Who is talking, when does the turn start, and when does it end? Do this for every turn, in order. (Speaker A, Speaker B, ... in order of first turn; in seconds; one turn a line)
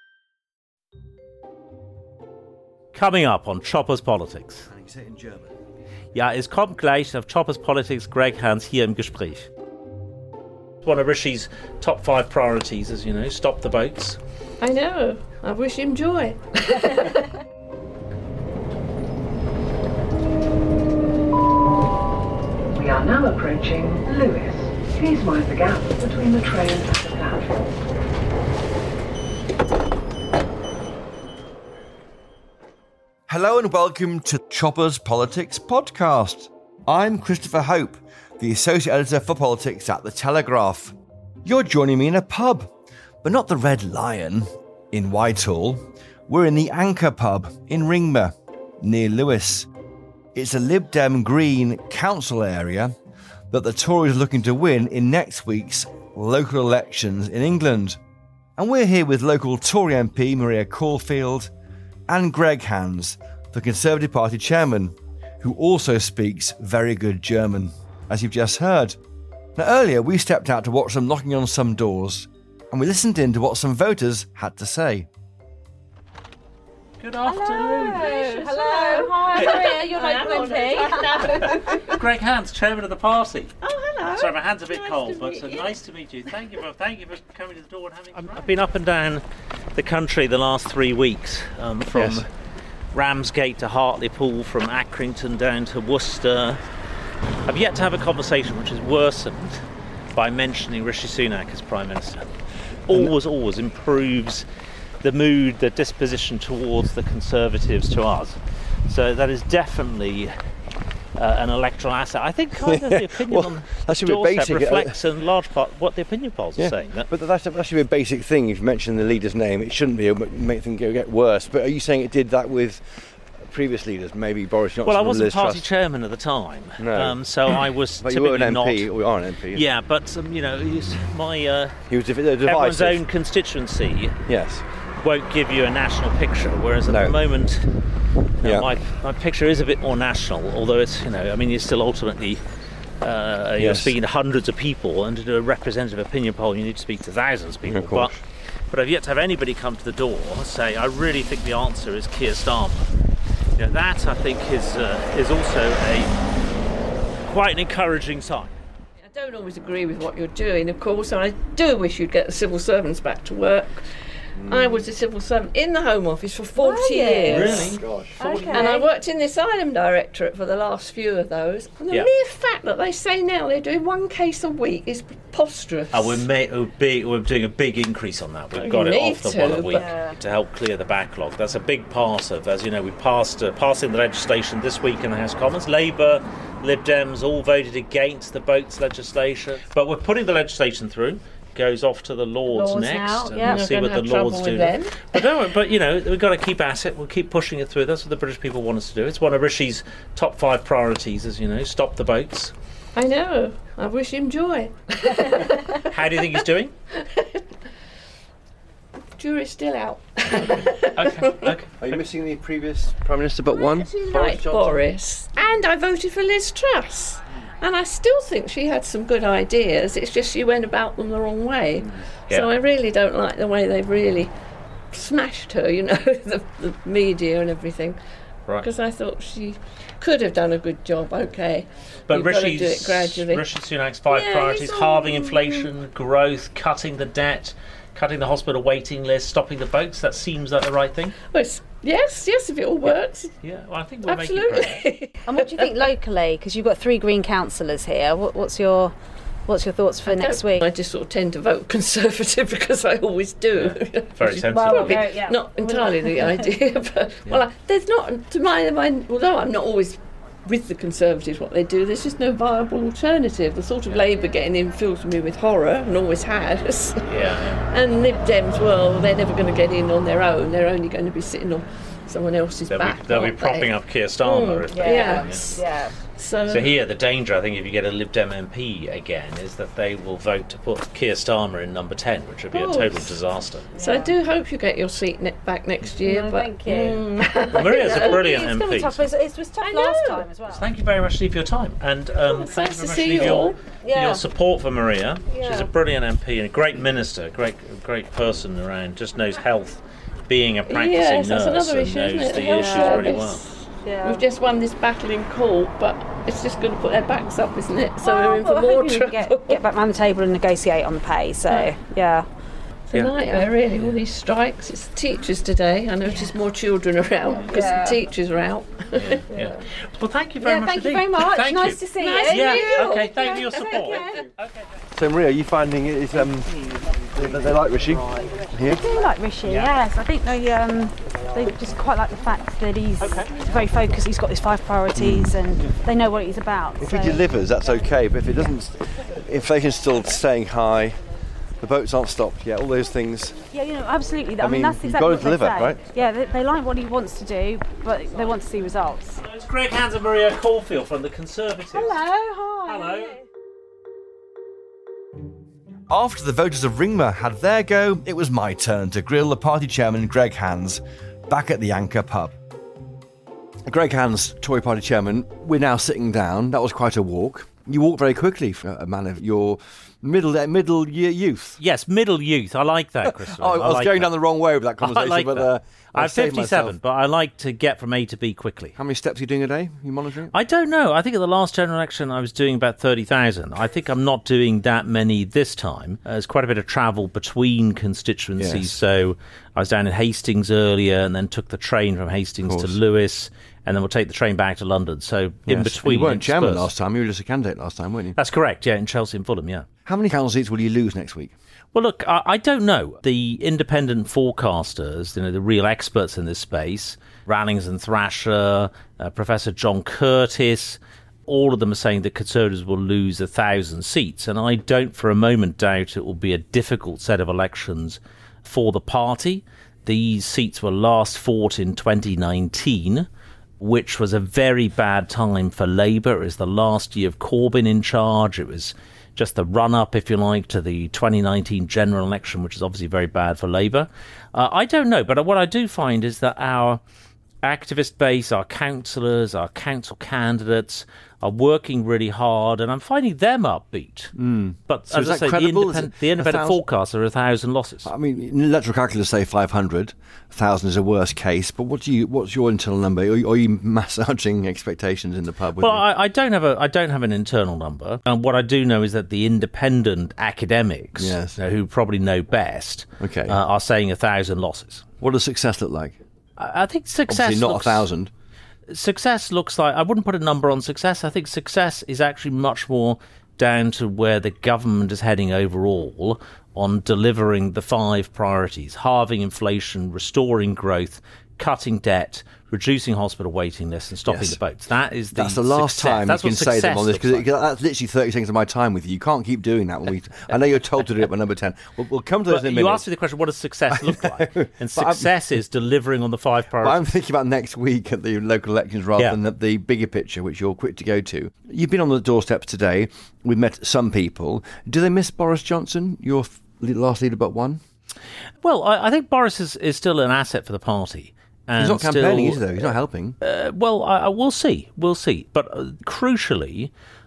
Speaker A: 2.9-4.7
Speaker B: 4.7-5.5
Speaker A: 6.1-9.5
Speaker A: 10.8-14.2
Speaker C: 14.6-17.2
Speaker D: 22.7-27.7
Speaker B: 33.3-42.7
Speaker B: 43.2-49.7
Speaker B: 50.3-52.9
Speaker B: 53.5-58.0
Speaker B: 58.6-61.5
Speaker B: 62.1-69.0
Speaker B: 69.5-75.1
Speaker A: 77.0-78.1
Speaker E: 77.2-81.9
Speaker C: 77.8-82.0
Speaker A: 79.3-79.6
Speaker A: 81.8-89.2
Speaker C: 83.6-85.7
Speaker A: 89.7-92.3
Speaker B: 91.9-92.2
Speaker A: 92.9-96.6
Speaker A: 97.5-99.6
Speaker A: 100.1-102.3
Speaker A: 102.9-104.4
Speaker A: 105.0-110.3
Speaker A: 111.2-117.1
Speaker B: 112.6-114.9
Speaker B: 116.6-125.7
Speaker A: 124.8-128.9
Speaker B: 126.8-127.2
Speaker B: 128.0-129.7
Speaker A: 129.5-131.8
Speaker B: 131.9-133.0
Speaker A: 132.4-134.2
Speaker B: 134.3-134.6
Speaker A: 135.0-137.7
Speaker B: 136.9-137.2
Speaker A: 138.4-142.4
Speaker B: 138.4-138.7
Speaker A: 143.0-148.2
Speaker B: 143.6-143.9
Speaker B: 147.6-148.2
Speaker A: 148.7-152.8
Speaker A: 153.6-156.1
Speaker A: 157.2-158.5
Speaker C: 159.0-167.7
Speaker B: 164.4-164.8
Speaker E: 166.6-168.8
Speaker A: 167.3-168.8
Speaker B: 167.8-168.1
Speaker C: 168.5-176.2
Speaker A: 175.9-202.5
Speaker C: 178.6-179.9
Speaker E: 179.7-180.1
Speaker E: 192.5-193.6
Speaker C: 193.4-195.2
Speaker C: 202.9-205.9
Speaker A: 205.8-206.7
Speaker C: 206.9-207.4
Speaker C: 209.2-211.5
Speaker A: 210.9-211.7
Speaker B: 211.8-214.8
Speaker C: 213.6-224.3
Speaker C: 224.9-228.0
Speaker C: 228.6-233.4
Speaker A: 232.1-241.2
Speaker C: 234.1-235.7
Speaker C: 241.3-243.3
Speaker A: 242.8-244.9
Speaker C: 244.1-245.7
Speaker E: 245.2-248.9
Speaker E: 249.5-250.6
Speaker C: 250.1-276.7
Speaker A: 253.6-255.1
Speaker E: 254.5-256.5
Speaker A: 267.0-267.6
Speaker A: 272.7-275.6
Speaker E: 274.7-275.9
Speaker A: 276.5-283.7
Speaker C: 282.5-283.1
Speaker E: 283.8-284.1
Speaker C: 283.8-288.4
Speaker E: 286.0-290.6
Speaker A: 287.5-289.0
Speaker C: 289.6-290.2
Speaker A: 290.5-303.4
Speaker C: 292.2-293.6
Speaker E: 293.8-294.2
Speaker E: 295.3-295.7
Speaker C: 300.7-309.6
Speaker E: 302.3-303.2
Speaker E: 303.8-304.2
Speaker E: 308.0-312.2
Speaker C: 311.5-311.7
Speaker C: 312.9-319.6
Speaker E: 317.5-318.0
Speaker A: 319.0-324.6
Speaker E: 320.4-324.2
Speaker C: 322.0-323.9
Speaker B: 324.9-328.8
Speaker E: 328.6-337.2
Speaker A: 329.5-329.7
Speaker A: 333.0-333.3
Speaker B: 334.9-335.4
Speaker B: 336.8-341.0
Speaker B: 341.6-343.4
Speaker E: 343.5-349.2
Speaker B: 344.4-345.8
Speaker A: 349.2-351.9
Speaker E: 351.7-353.2
Speaker A: 352.7-353.1
Speaker B: 355.9-362.3
Speaker B: 363.6-371.6
Speaker A: 371.6-374.1
Speaker B: 373.0-376.8
Speaker A: 374.8-378.8
Speaker B: 378.8-380.3
Speaker A: 380.3-396.7
Speaker B: 388.4-388.8
Speaker B: 392.4-392.8
Speaker B: 395.5-398.2
Speaker A: 398.1-399.7
Speaker B: 399.9-401.3
Speaker A: 401.7-423.1
Speaker A: 423.6-436.8
Speaker A: 437.4-444.1
Speaker B: 444.1-446.6
Speaker A: 444.7-447.9
Speaker B: 447.8-455.8
Speaker A: 455.6-464.8
Speaker B: 460.9-461.4
Speaker B: 463.0-463.4
Speaker B: 465.0-466.0
Speaker A: 466.4-467.9
Speaker B: 467.1-468.1
Speaker A: 468.7-487.2
Speaker B: 484.1-484.4
Speaker B: 485.1-492.9
Speaker A: 492.3-496.8
Speaker B: 493.7-495.1
Speaker B: 496.6-507.6
Speaker A: 508.4-512.6
Speaker B: 511.6-513.2
Speaker A: 513.2-516.7